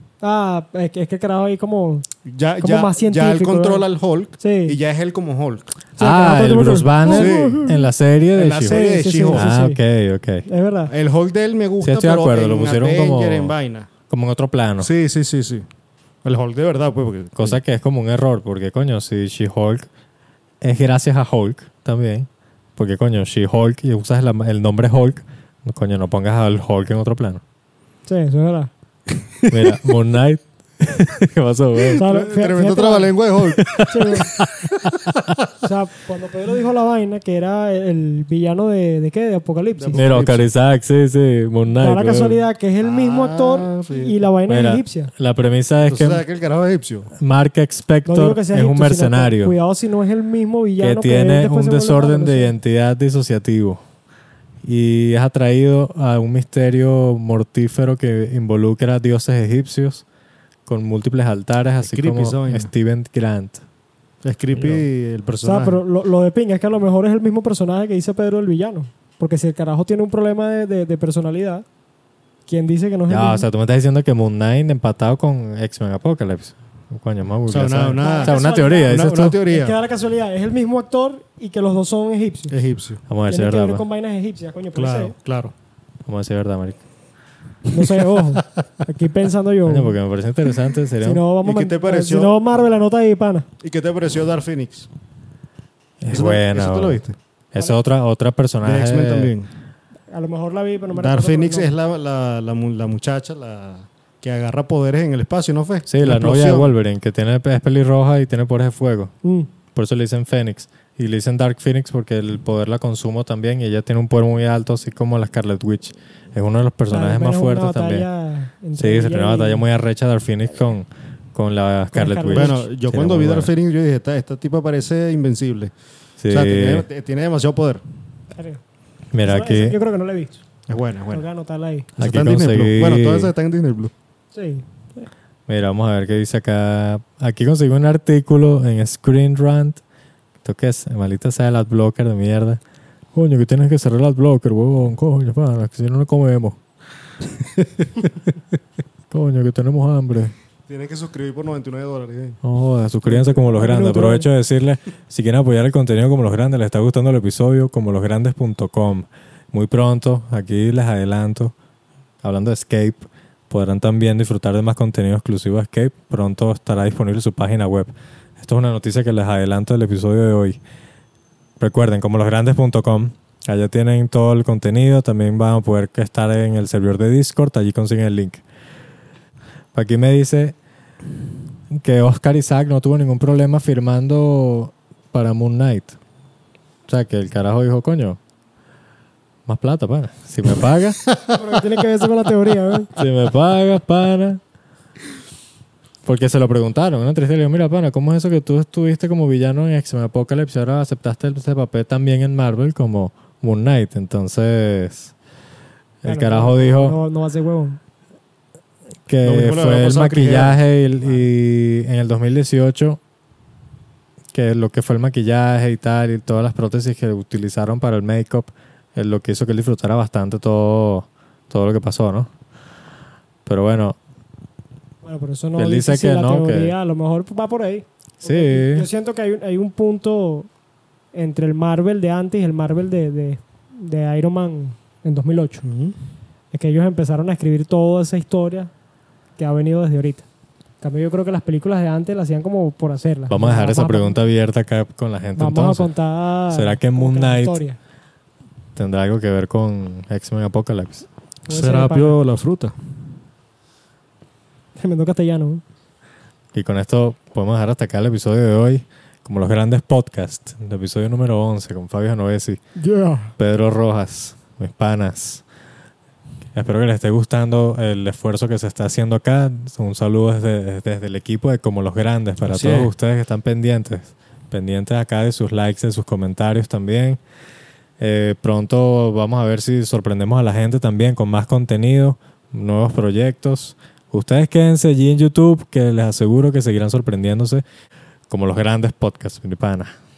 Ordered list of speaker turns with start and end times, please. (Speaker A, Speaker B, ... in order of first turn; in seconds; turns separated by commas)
Speaker A: 0.2-2.1, Speaker B: 2.3-5.8, Speaker A: 2.6-3.9, Speaker A: 4.4-4.8, Speaker C: 6.0-10.5, Speaker A: 6.0-7.9, Speaker B: 7.1-7.7, Speaker B: 8.3-9.5, Speaker A: 8.7-9.8, Speaker A: 10.5-10.9, Speaker B: 10.9-13.9, Speaker C: 11.8-13.5, Speaker C: 14.1-14.9, Speaker B: 14.8-15.7, Speaker B: 16.2-17.6, Speaker C: 17.4-19.9, Speaker C: 20.6-27.4, Speaker A: 28.1-28.7, Speaker C: 29.5-32.0, Speaker B: 31.9-34.2, Speaker A: 31.9-33.1, Speaker C: 33.5-35.2, Speaker A: 33.7-34.3, Speaker A: 35.6-40.0, Speaker B: 39.8-40.5, Speaker C: 40.0-42.4, Speaker A: 41.8-45.1, Speaker B: 42.8-44.2, Speaker C: 44.5-46.2, Speaker B: 45.8-47.1, Speaker C: 47.2-49.5, Speaker A: 48.1-52.5, Speaker C: 50.8-53.8, Speaker C: 54.6-60.0, Speaker C: 60.7-63.6, Speaker B: 61.8-62.7, Speaker B: 64.2-65.8, Speaker A: 65.4-71.7, Speaker A: 72.5-73.5, Speaker C: 73.1-79.4, Speaker B: 77.5-79.8, Speaker A: 78.0-82.5, Speaker B: 82.5-83.0, Speaker C: 83.1-83.8, Speaker A: 83.3-85.1, Speaker B: 84.8-85.5, Speaker C: 86.1-86.8, Speaker B: 87.7-88.4, Speaker A: 87.7-90.0, Speaker C: 89.7-91.2, Speaker A: 91.0-93.5, Speaker B: 91.4-92.4, Speaker B: 93.6-94.9, Speaker C: 96.0-97.0, Speaker B: 96.1-97.2, Speaker C: 97.5-99.3, Speaker B: 98.6-99.5, Speaker A: 100.1-101.7, Speaker B: 100.9-106.7, Speaker C: 105.9-109.1, Speaker C: 109.7-118.0, Speaker A: 116.9-119.6, Speaker C: 118.8-123.5, Speaker A: 121.9-122.7, Speaker B: 122.3-125.7, Speaker C: 126.2-126.8, Speaker B: 126.3-127.8, Speaker A: 128.4-128.6, Speaker C: 129.1-129.8, Speaker A: 129.2-130.4, Speaker B: 130.7-131.2, Speaker A: 131.1-131.9, Speaker B: 132.0-133.9, Speaker C: 132.0-133.3, Speaker A: 134.3-134.7, Speaker C: 135.5-139.8, Speaker C: 140.4-142.6, Speaker C: 143.2-146.6, Speaker C: 149.1-150.3, Speaker B: 150.7-152.4, Speaker C: 152.4-161.5, Speaker A: 153.1-154.3, Speaker C: 162.2-170.6, Speaker C: 171.6-178.4, Speaker C: 179.7-180.6, Speaker C: 181.7-186.0, Speaker C: 186.9-188.2, Speaker C: 189.5-191.0, Speaker B: 191.1-191.4, Speaker A: 191.3-192.9, Speaker C: 192.9-194.4, Speaker C: 196.1-205.1, Speaker C: 206.0-207.0, Speaker A: 206.1-207.8, Speaker C: 209.1-213.0, Speaker B: 209.2-210.6, Speaker C: 214.3-222.3, Speaker C: 223.5-224.0, Speaker A: 225.0-230.5, Speaker C: 225.6-226.7, Speaker C: 228.2-228.9, Speaker A: 231.1-235.6, Speaker B: 235.6-235.9, Speaker A: 236.5-238.7, Speaker A: 239.4-240.2, Speaker A: 240.8-244.2, Speaker C: 243.3-245.9, Speaker A: 245.4-247.8, Speaker C: 246.5-247.6, Speaker C: 248.8-251.1, Speaker A: 251.5-252.2, Speaker B: 251.5-252.7, Speaker A: 254.8-255.6, Speaker C: 256.5-262.6, Speaker A: 262.8-263.3, Speaker C: 263.4-265.4, Speaker C: 266.6-277.2, Speaker B: 272.4-272.9, Speaker C: 278.0-287.6, Speaker C: 288.3-289.9